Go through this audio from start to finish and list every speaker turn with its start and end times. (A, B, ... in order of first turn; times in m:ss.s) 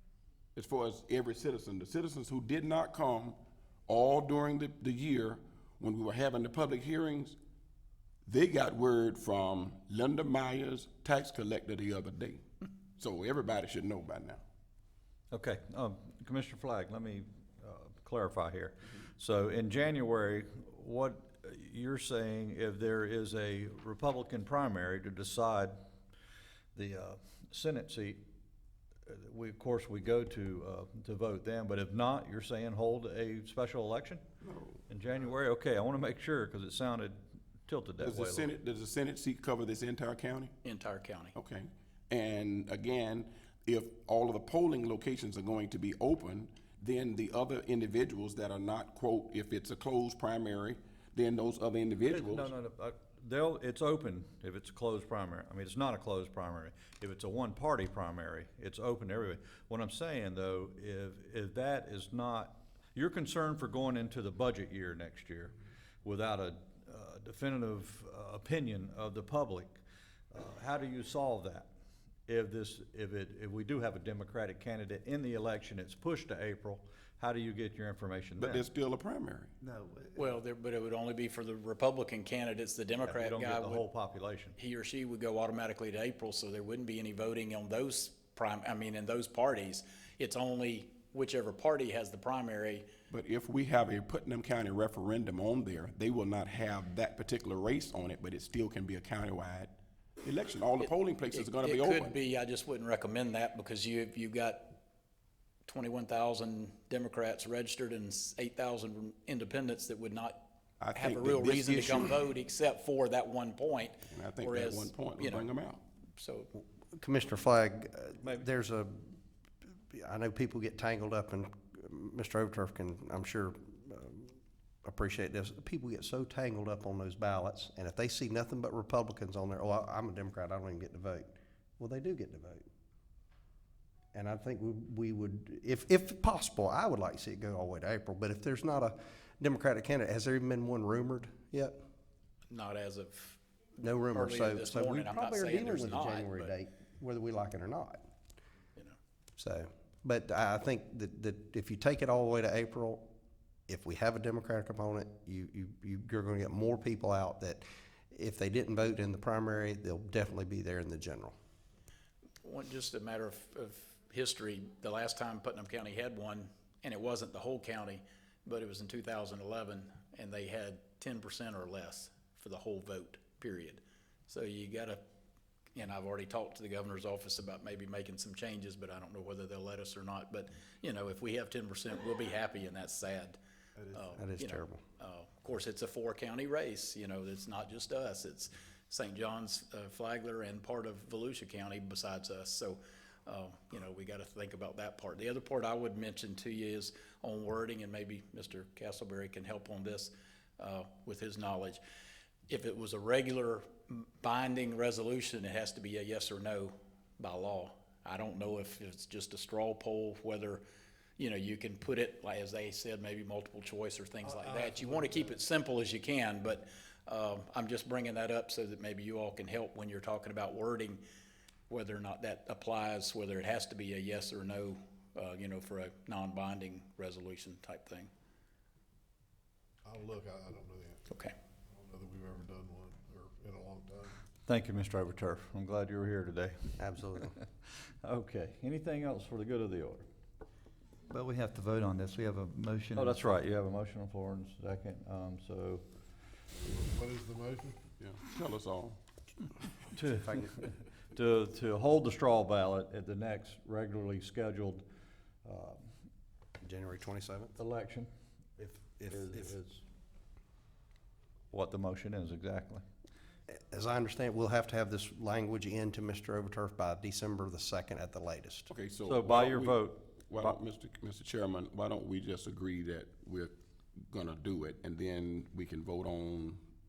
0:00.6-0:07.4 A
0:08.2-0:12.4 A
0:13.0-0:14.4 A
0:15.3-0:25.8 B
0:26.8-0:28.2 B
0:29.1-0:34.2 B
0:34.4-0:34.8 A
0:34.9-0:38.5 B
0:38.0-0:40.6 A
0:40.6-0:41.4 C
0:41.4-0:52.5 A
0:52.1-1:11.7 B
1:12.3-1:18.6 B
1:18.4-1:19.5 A
1:19.7-1:20.1 D
1:20.2-1:23.8 C
1:23.0-1:24.6 B
1:24.6-1:32.9 C
1:33.1-1:42.2 A
1:41.3-1:44.8 C
1:45.7-1:50.4 C
1:50.8-1:52.2 A
1:51.0-1:55.5 C
1:54.1-1:55.8 A
1:56.2-1:56.5 C
1:56.6-2:12.6 E
1:58.2-1:58.5 B
2:14.1-2:21.8 E
2:22.5-2:23.4 C
2:23.8-2:28.0 E
2:24.1-2:26.5 C
2:29.4-2:33.1 E
2:33.7-2:41.3 E
2:42.4-2:55.0 C
2:55.8-3:03.4 C
3:03.9-3:21.8 C
3:04.2-3:04.8 E
3:22.5-3:30.6 C
3:31.2-3:41.0 C
3:34.2-3:35.4 F
3:41.7-3:48.1 C
3:49.8-3:51.1 F
3:51.7-3:54.2 F
3:54.5-3:57.4 B
3:56.8-3:57.4 E
3:58.0-4:00.1 B
4:01.1-4:03.1 D
4:02.9-4:05.8 B
4:06.7-4:07.9 F
4:08.0-4:09.0 A
4:09.9-4:14.8 B
4:15.4-4:15.9 B
4:16.6-4:17.6 E
4:17.6-4:18.1 B
4:18.6-4:19.5 E
4:18.8-4:19.8 B
4:21.5-4:22.8 B
4:23.5-4:28.7 E
4:28.7-4:36.6 A
4:29.1-4:30.6 B